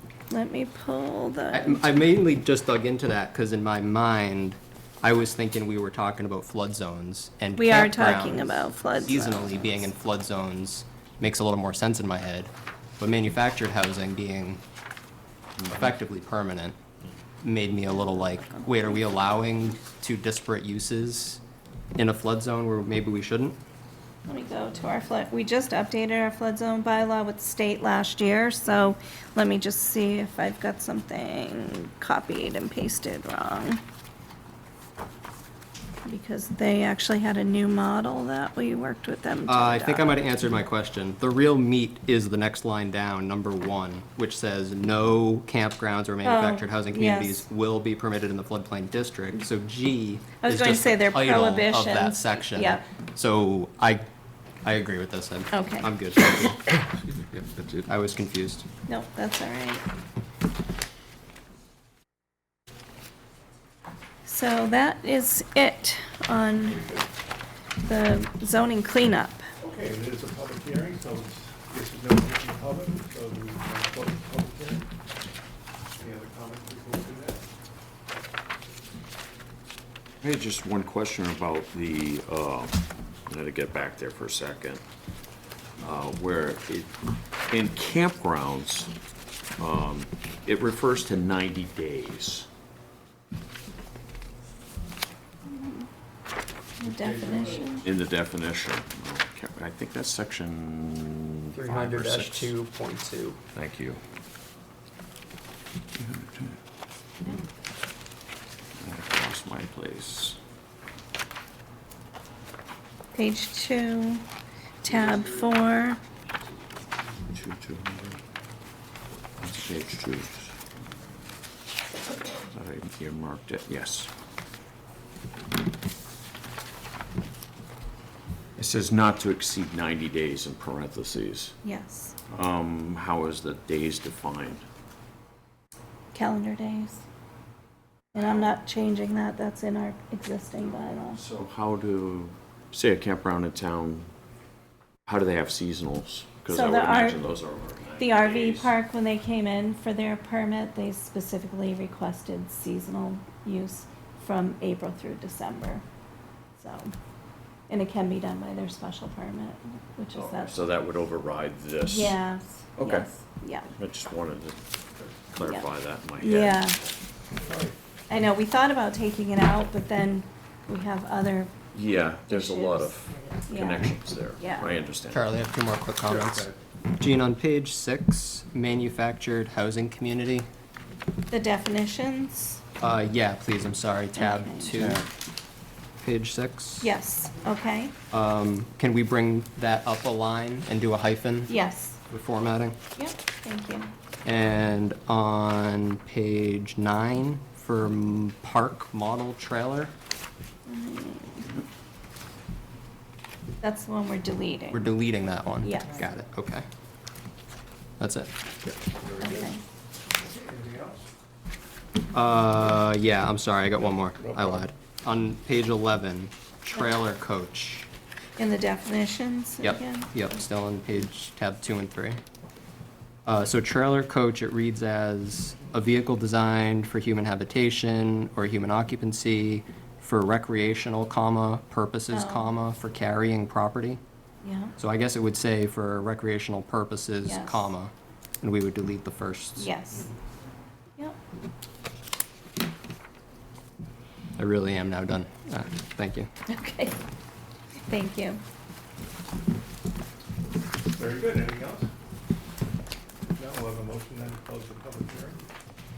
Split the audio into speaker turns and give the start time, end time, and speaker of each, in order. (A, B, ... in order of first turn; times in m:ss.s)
0:00.3-0:02.0 A
0:01.5-0:14.6 B
0:07.6-0:09.9 A
0:15.6-0:16.8 B
0:17.4-0:21.4 B
0:22.0-0:23.6 B
0:24.3-0:33.8 A
0:36.0-0:40.2 A
0:39.5-0:54.0 B
0:46.2-0:47.5 A
0:50.4-0:52.8 A
0:54.6-0:56.7 B
0:55.5-0:55.9 A
0:57.8-0:58.6 B
0:58.9-0:59.8 A
1:04.3-1:06.8 A
1:07.8-1:09.4 A
1:09.6-1:14.9 C
1:16.0-1:17.4 C
1:20.2-1:24.8 D
1:25.8-1:26.9 D
1:27.5-1:28.9 D
1:29.6-1:32.5 D
1:35.5-1:35.9 A
1:36.8-1:37.8 A
1:36.8-1:37.7 C
1:37.8-1:42.5 D
1:41.5-1:43.4 B
1:43.6-1:44.0 D
1:46.0-1:46.6 D
1:48.8-1:50.4 D
1:53.1-1:54.2 A
1:54.8-1:56.0 A
1:57.3-1:58.2 D
1:59.4-2:00.6 D
2:02.4-2:04.1 D
2:08.6-2:11.6 D
2:11.6-2:12.2 A
2:12.3-2:14.6 D
2:16.1-2:17.0 A
2:18.1-2:21.2 A
2:18.2-2:18.6 D
2:20.6-2:24.1 D
2:25.1-2:28.7 D
2:26.5-2:27.2 A
2:28.0-2:35.8 A
2:36.6-2:36.9 A
2:37.7-2:40.6 A
2:40.2-2:42.2 D
2:41.8-2:43.7 A
2:42.8-2:43.1 D
2:43.8-2:44.6 D
2:45.3-2:46.6 D
2:45.4-2:46.8 A
2:47.4-2:47.8 C
2:48.1-2:54.8 A
2:51.7-2:55.3 D
2:55.1-3:00.5 B
2:56.1-2:56.6 C
3:01.3-3:02.6 A
3:02.8-3:05.0 B
3:04.2-3:04.9 A
3:06.0-3:06.9 B
3:06.8-3:07.9 A
3:08.1-3:11.5 B
3:11.5-3:12.0 A
3:12.1-3:12.8 B
3:13.0-3:13.9 A
3:14.2-3:19.9 B
3:20.7-3:21.6 A
3:23.6-3:24.9 A
3:24.7-3:26.6 B
3:25.6-3:26.0 A
3:28.0-3:28.3 B
3:28.9-3:29.5 C
3:29.2-3:29.6 A
3:30.2-3:31.1 C
3:32.1-3:37.9 B
3:34.2-3:34.7 C
3:38.4-3:40.1 A
3:39.6-3:42.2 B
3:43.3-3:54.0 B
3:52.1-3:52.5 A
3:54.4-3:54.8 A
3:54.8-3:59.7 B
3:57.2-3:57.7 A
3:59.6-4:00.1 A
4:04.4-4:06.3 B
4:06.5-4:07.0 A
4:07.9-4:08.4 A
4:10.8-4:11.9 C
4:13.3-4:15.4 C